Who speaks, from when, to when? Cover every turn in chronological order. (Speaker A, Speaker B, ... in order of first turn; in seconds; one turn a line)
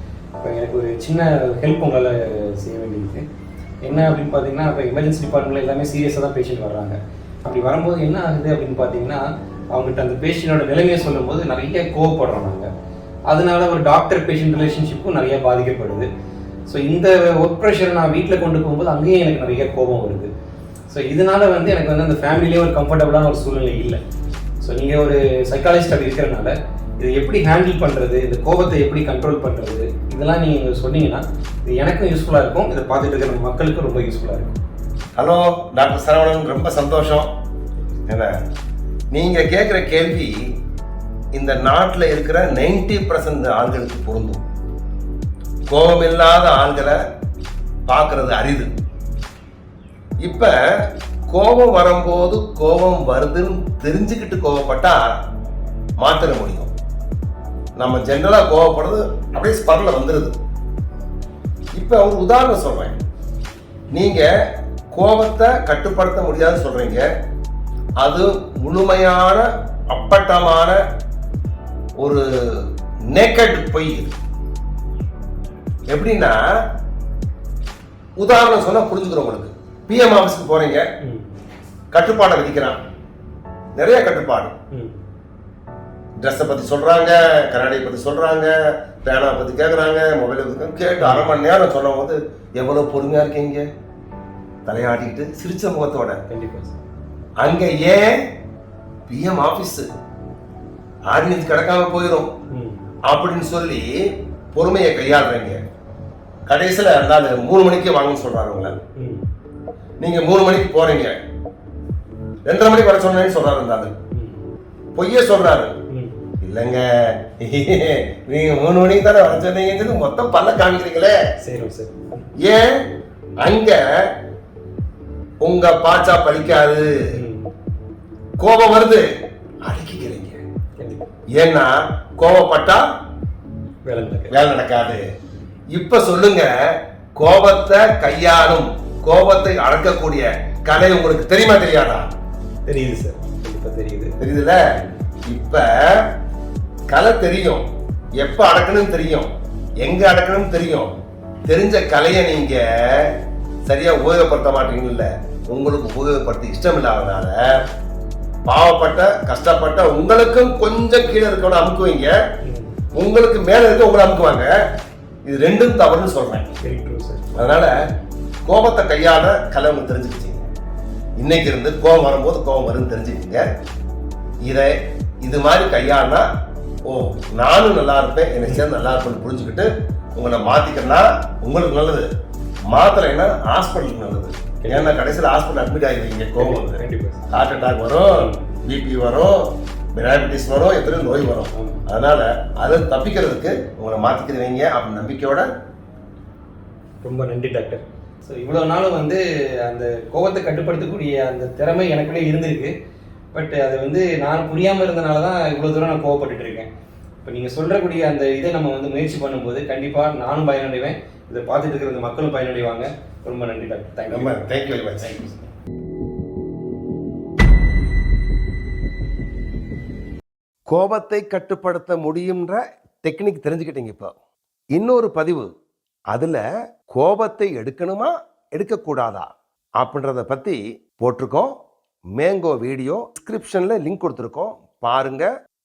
Speaker A: 0.4-3.2
Speaker A: 3.8-12.7
Speaker A: 13.3-16.1
Speaker A: 16.7-20.3
Speaker A: 20.9-24.0
Speaker A: 24.6-34.5
Speaker B: 35.2-37.3
Speaker B: 39.1-40.3
Speaker B: 41.3-44.4
Speaker B: 45.7-47.0
Speaker B: 47.9-48.7
Speaker B: 50.2-50.5
Speaker B: 51.3-55.2
Speaker B: 56.0-56.7
Speaker B: 57.8-60.4
Speaker B: 61.8-63.0
Speaker B: 63.9-64.3
Speaker B: 64.9-67.0
Speaker B: 68.0-70.8
Speaker B: 72.0-74.1
Speaker B: 75.9-76.4
Speaker B: 78.2-80.8
Speaker A: 81.0-81.3
Speaker B: 81.9-82.8
Speaker B: 83.8-84.5
Speaker A: 84.7-85.0
Speaker B: 86.2-93.7
Speaker A: 91.0-91.3
Speaker B: 94.7-96.2
Speaker A: 96.3-96.8
Speaker B: 97.4-98.1
Speaker B: 99.1-99.9
Speaker B: 101.1-102.3
Speaker A: 102.5-102.8
Speaker B: 103.1-103.9
Speaker B: 104.5-105.6
Speaker B: 106.5-108.8
Speaker A: 108.9-109.2
Speaker B: 110.0-111.1
Speaker B: 112.4-113.9
Speaker A: 114.1-114.4
Speaker B: 114.9-115.7
Speaker A: 115.9-116.2
Speaker B: 116.4-121.2
Speaker A: 121.4-122.2
Speaker B: 122.4-122.7
Speaker B: 123.4-123.8
Speaker B: 125.4-126.9
Speaker A: 127.1-127.5
Speaker B: 128.4-129.0
Speaker B: 129.7-130.4
Speaker A: 130.8-131.1
Speaker B: 131.3-132.8
Speaker A: 133.8-134.3
Speaker B: 134.3-135.0
Speaker B: 135.7-136.5
Speaker B: 137.2-142.1
Speaker A: 142.7-144.2
Speaker B: 144.2-144.6
Speaker B: 145.2-146.1
Speaker B: 146.9-147.6
Speaker B: 148.2-149.3
Speaker B: 149.8-153.1
Speaker B: 153.7-157.6
Speaker B: 158.4-162.1
Speaker A: 162.4-162.8
Speaker B: 162.9-164.5
Speaker B: 165.2-166.5
Speaker A: 166.6-167.4
Speaker B: 167.3-167.7
Speaker B: 168.4-170.4
Speaker B: 171.2-173.5
Speaker B: 174.4-174.7
Speaker B: 175.2-176.2
Speaker B: 176.8-182.1
Speaker B: 182.7-195.5
Speaker A: 184.6-184.9
Speaker A: 186.4-187.2
Speaker A: 188.1-188.5
Speaker A: 191.5-191.8
Speaker A: 197.0-202.7
Speaker A: 203.3-206.7
Speaker A: 207.2-215.5
Speaker B: 214.1-215.1
Speaker B: 220.7-224.1
Speaker B: 224.7-225.5
Speaker B: 226.1-229.3
Speaker B: 229.8-231.5
Speaker B: 232.2-235.3